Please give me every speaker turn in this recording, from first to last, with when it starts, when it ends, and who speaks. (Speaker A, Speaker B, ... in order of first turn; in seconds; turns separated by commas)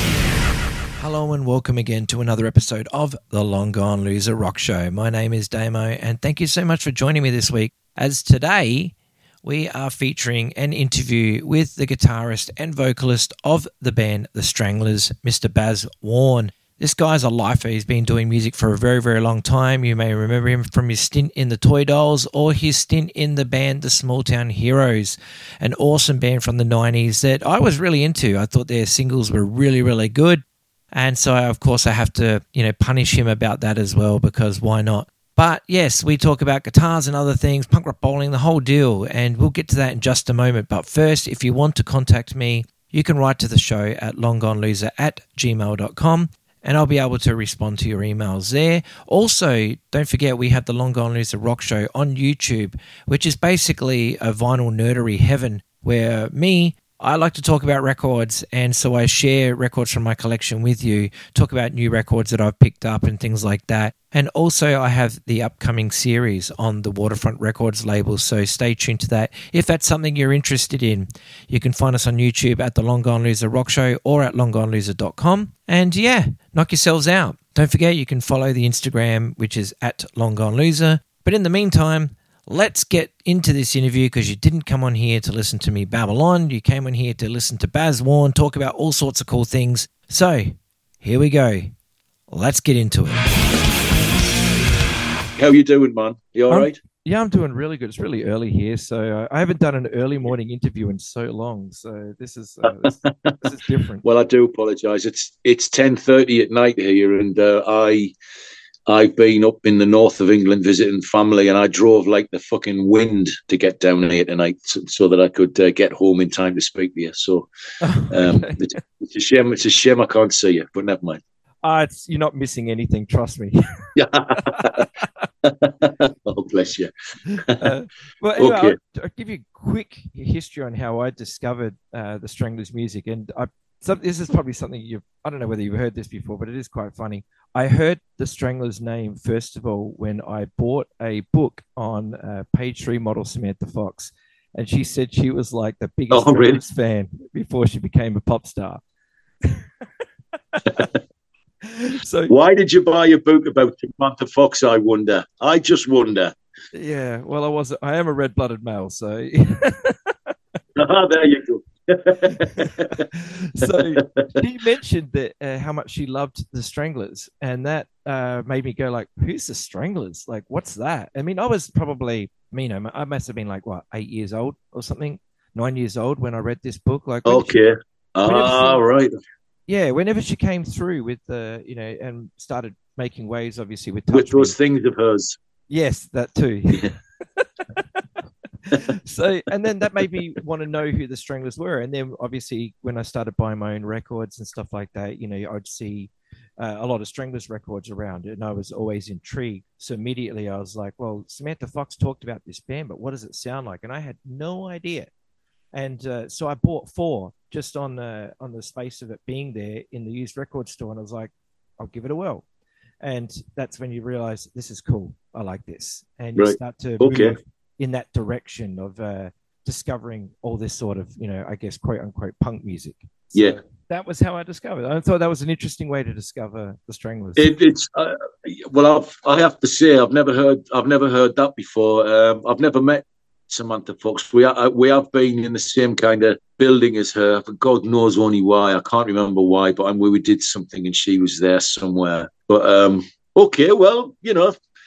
Speaker A: 1.0-8.9, Speaker A: 9.4-91.7, Speaker A: 92.3-93.2, Speaker B: 95.4-96.8, Speaker A: 96.5-104.0, Speaker B: 102.6-103.3, Speaker B: 104.0-108.1, Speaker B: 108.9-117.5, Speaker A: 117.8-118.6, Speaker B: 118.1-121.2, Speaker A: 121.6-125.0, Speaker B: 124.0-124.8, Speaker B: 125.4-126.9, Speaker A: 127.3-148.8, Speaker B: 127.4-127.7, Speaker B: 128.4-128.8, Speaker B: 146.1-146.6, Speaker A: 150.5-150.9, Speaker A: 151.6-152.3, Speaker B: 152.3-156.3, Speaker A: 156.7-160.1, Speaker B: 160.7-163.0, Speaker A: 162.2-177.6, Speaker B: 163.6-164.4, Speaker B: 177.2-179.1, Speaker A: 178.2-178.8, Speaker A: 179.7-184.5, Speaker B: 184.1-185.4, Speaker A: 185.7-188.0, Speaker A: 188.7-205.1, Speaker A: 205.7-212.4, Speaker A: 213.0-227.5, Speaker B: 216.3-217.3, Speaker B: 227.4-244.6